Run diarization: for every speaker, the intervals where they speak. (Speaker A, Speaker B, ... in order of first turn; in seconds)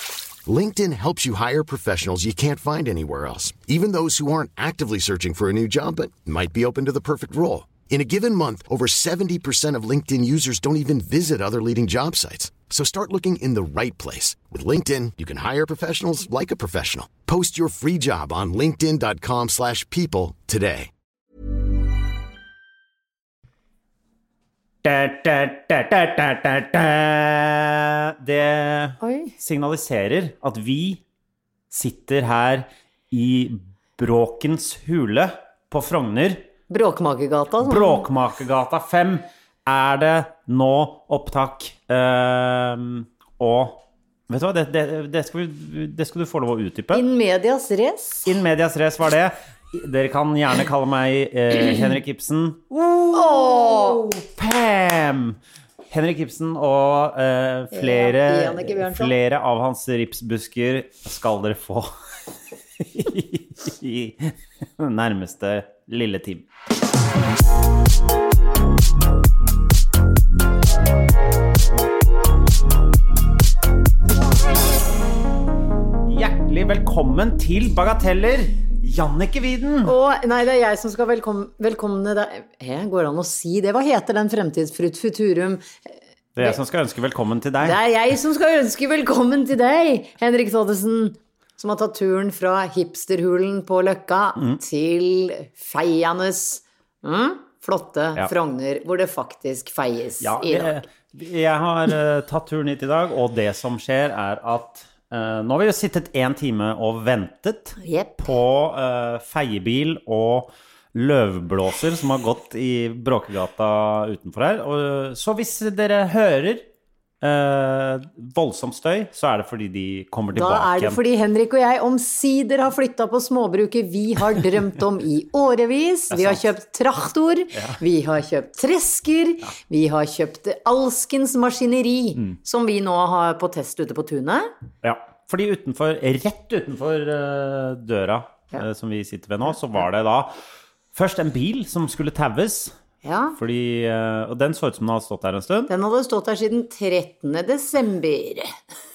Speaker A: 0.5-20.9
Speaker B: 24.8-31.0, 31.7-36.5, 37.6-47.0, 48.2-55.4, 55.9-61.9, 62.8-66.5, 76.1-80.0, 86.4-87.8, 100.2-116.7, 117.2-121.0, 126.1-126.4, 127.5-127.8, 134.8-140.3, 140.9-142.7, 143.4-145.7
Speaker C: 29.0-29.3, 36.7-38.1, 46.9-48.3, 53.1-54.0, 57.7-59.1, 79.8-86.6, 87.6-100.8, 107.8-108.2, 120.3-134.5, 143.0-143.4, 145.7-148.5